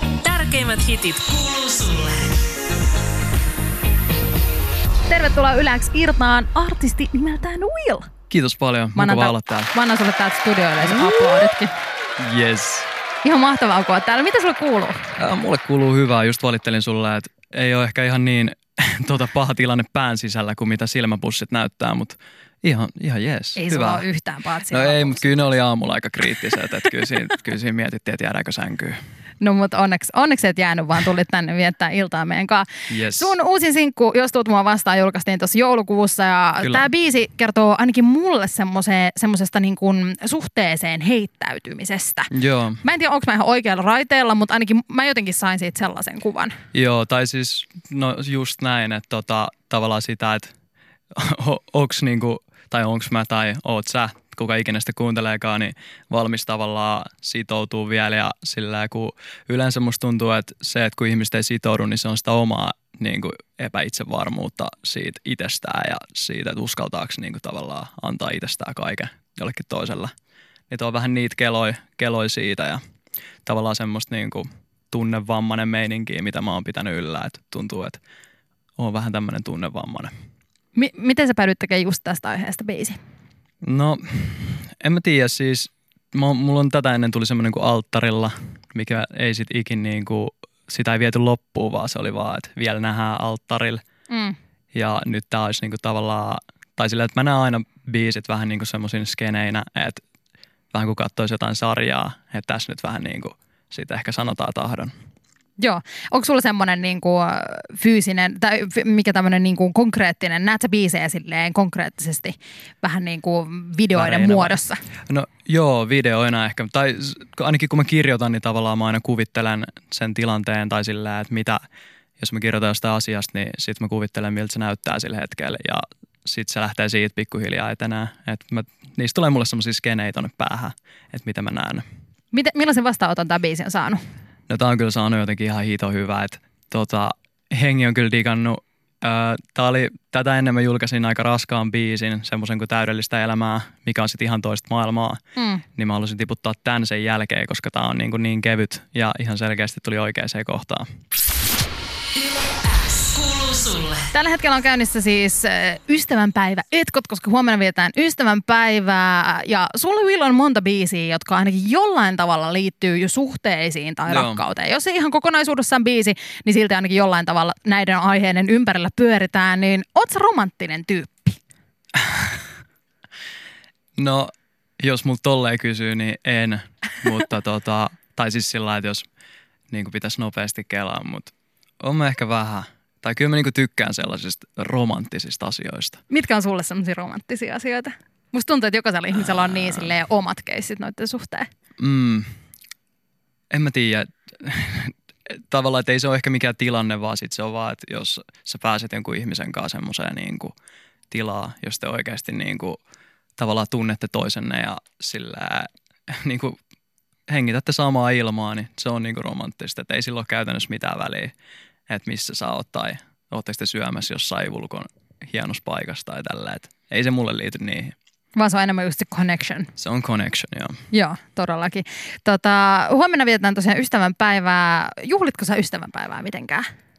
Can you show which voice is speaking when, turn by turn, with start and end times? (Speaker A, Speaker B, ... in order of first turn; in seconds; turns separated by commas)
Speaker A: 0.2-2.4, Speaker B: 5.1-8.1, Speaker C: 8.3-9.7, Speaker B: 9.0-11.7, Speaker C: 10.8-11.5, Speaker C: 12.2-12.9, Speaker B: 13.2-15.1, Speaker C: 15.2-24.1, Speaker B: 23.6-25.3, Speaker C: 24.7-29.0, Speaker B: 29.4-42.3, Speaker C: 32.9-33.3, Speaker C: 36.6-36.9, Speaker C: 42.3-42.8, Speaker B: 42.8-46.5, Speaker C: 46.7-50.5, Speaker C: 51.1-70.1, Speaker C: 70.7-72.8, Speaker C: 73.5-78.0, Speaker C: 78.8-80.1, Speaker B: 80.8-83.0, Speaker C: 83.6-93.8, Speaker B: 94.1-94.4, Speaker C: 94.7-100.0, Speaker C: 100.7-104.9, Speaker B: 105.6-114.8, Speaker C: 113.9-121.6, Speaker C: 122.2-131.8, Speaker B: 132.3-134.0, Speaker C: 134.5-145.2, Speaker B: 145.4-145.7, Speaker C: 145.8-150.9, Speaker A: 153.0-153.9, Speaker B: 154.0-171.4, Speaker C: 164.1-164.4, Speaker C: 172.0-172.3, Speaker C: 174.0-179.1, Speaker C: 179.7-186.0, Speaker B: 186.1-191.5, Speaker C: 189.6-189.9, Speaker C: 191.8-192.3, Speaker C: 193.5-200.5, Speaker C: 201.1-202.8, Speaker C: 203.4-206.6, Speaker C: 207.3-211.3, Speaker C: 211.9-217.9, Speaker B: 218.3-219.7, Speaker C: 219.8-220.8, Speaker B: 220.9-226.7